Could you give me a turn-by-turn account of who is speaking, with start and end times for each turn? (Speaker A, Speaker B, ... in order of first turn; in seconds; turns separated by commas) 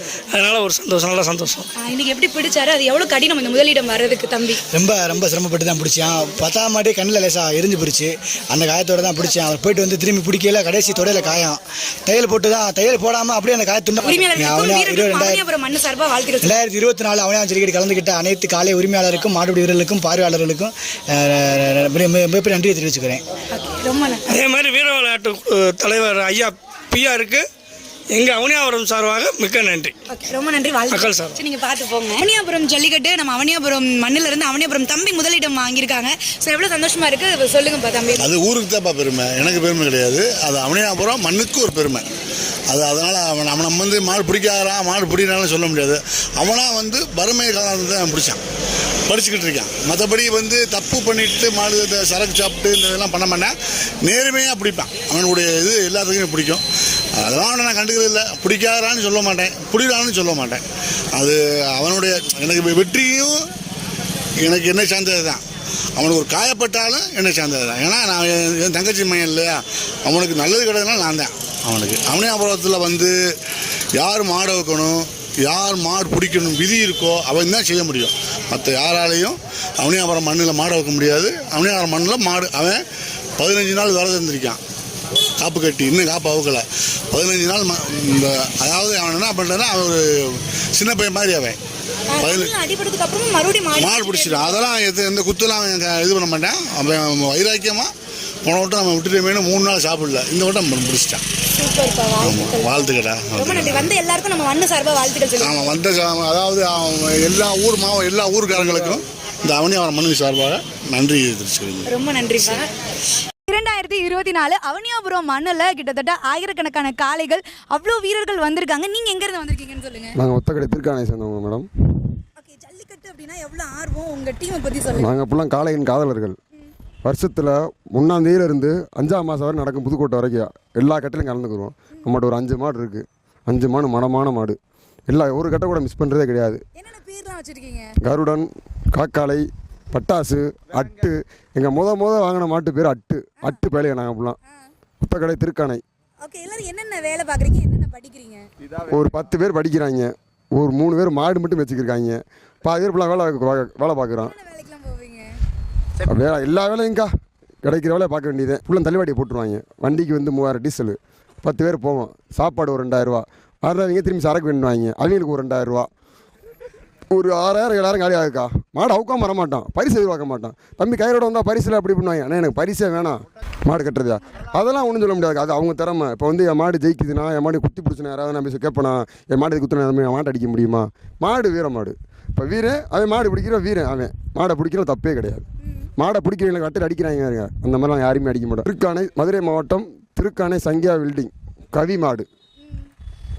Speaker A: 0.3-1.6, Speaker B: 1.8-4.6, Speaker C: 4.7-15.4, Speaker B: 14.0-16.6, Speaker C: 16.4-23.2, Speaker B: 23.5-24.2, Speaker A: 24.3-27.4, Speaker A: 28.1-29.9, Speaker B: 30.1-38.3, Speaker A: 30.9-31.4, Speaker D: 38.2-42.0, Speaker D: 42.7-48.4, Speaker D: 49.1-53.5, Speaker D: 54.0-56.6, Speaker D: 57.2-60.6, Speaker D: 61.1-63.4, Speaker D: 64.4-65.4, Speaker D: 66.0-73.1, Speaker D: 74.0-82.8, Speaker D: 83.4-84.6, Speaker D: 85.4-90.0, Speaker D: 90.8-91.6, Speaker B: 92.1-94.7, Speaker D: 92.2-92.5, Speaker D: 93.8-97.9, Speaker D: 98.4-101.2, Speaker B: 101.5-105.7, Speaker D: 102.2-103.9, Speaker D: 105.4-111.9, Speaker B: 111.9-112.7, Speaker B: 113.5-120.1, Speaker E: 120.2-121.7, Speaker B: 122.4-125.1, Speaker E: 125.0-126.4, Speaker E: 127.0-134.6, Speaker E: 135.1-136.6, Speaker B: 136.8-137.9, Speaker E: 138.0-144.4, Speaker E: 145.0-145.8, Speaker B: 146.2-148.5, Speaker E: 148.9-154.3, Speaker B: 154.2-155.3, Speaker E: 156.1-157.1, Speaker E: 157.6-165.9, Speaker E: 167.1-185.4, Speaker E: 186.0-192.2